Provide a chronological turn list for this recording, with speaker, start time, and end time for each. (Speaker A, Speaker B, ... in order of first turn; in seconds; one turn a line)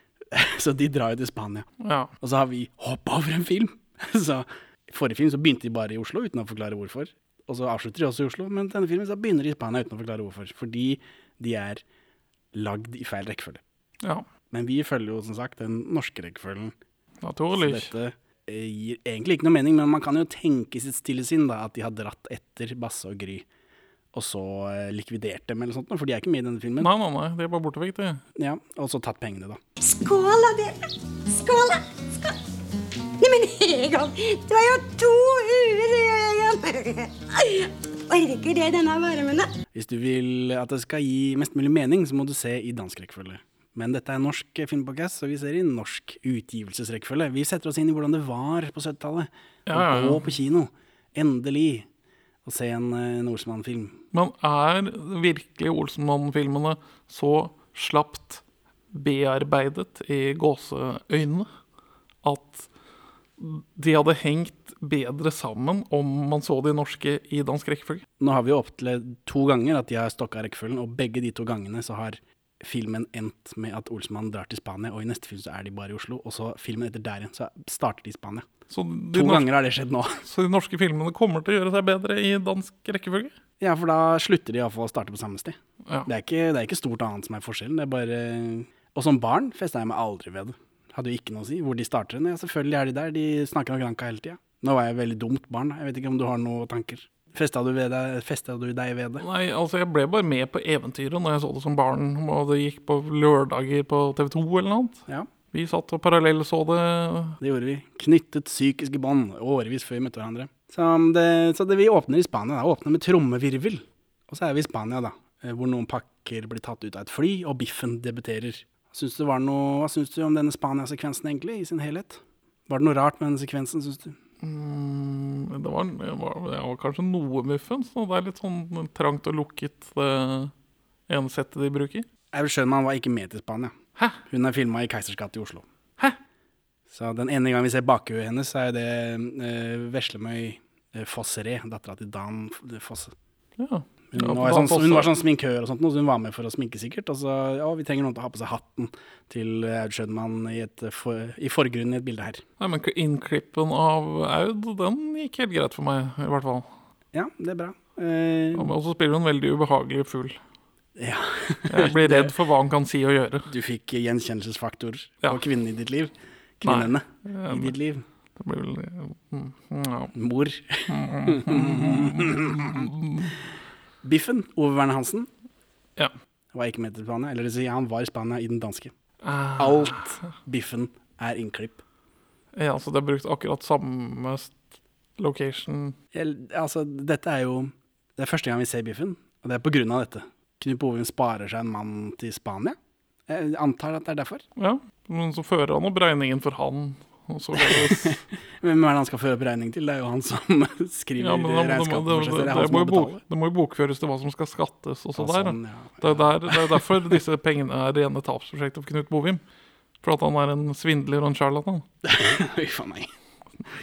Speaker A: 0.3-1.7
Speaker B: 1.8-2.1
Speaker A: 2.2-11.8
Speaker A: 12.5-13.6
Speaker A: 14.5-16.8
Speaker B: 17.2-17.9
Speaker A: 17.6-23.4
Speaker A: 24.1-26.9
Speaker B: 26.8-28.2
Speaker A: 28.4-29.6
Speaker C: 29.8-32.4
Speaker C: 33.2-39.5
Speaker A: 39.7-51.9
Speaker B: 49.7-50.2
Speaker A: 52.5-54.0
Speaker B: 54.1-61.5
Speaker B: 62.2-62.7
Speaker B: 63.4-68.0
Speaker A: 68.2-78.5
Speaker B: 78.7-79.5
Speaker A: 79.1-80.2
Speaker B: 80.3-83.3
Speaker A: 83.6-99.2
Speaker B: 99.2-107.4
Speaker A: 107.4-124.2
Speaker B: 124.4-130.5
Speaker B: 131.1-132.1
Speaker A: 132.3-133.7
Speaker A: 134.3-135.7
Speaker A: 136.9-143.1
Speaker B: 143.6-145.1
Speaker A: 144.1-152.4
Speaker B: 152.6-156.7
Speaker A: 157.1-158.7
Speaker B: 158.6-160.4
Speaker A: 161.0-162.3
Speaker B: 161.7-163.5
Speaker A: 163.5-168.1
Speaker B: 166.6-167.8
Speaker B: 168.4-170.1
Speaker A: 170.1-172.9
Speaker B: 170.9-173.4
Speaker A: 174.0-175.3
Speaker A: 176.5-178.9
Speaker B: 179.2-180.2
Speaker A: 179.6-181.8
Speaker B: 182.5-184.6
Speaker B: 185.2-186.0
Speaker A: 186.1-192.8
Speaker A: 193.3-194.4
Speaker B: 194.6-198.2
Speaker A: 197.6-203.2
Speaker B: 201.2-209.4
Speaker A: 205.2-206.9
Speaker B: 210.0-211.9
Speaker A: 212.0-213.1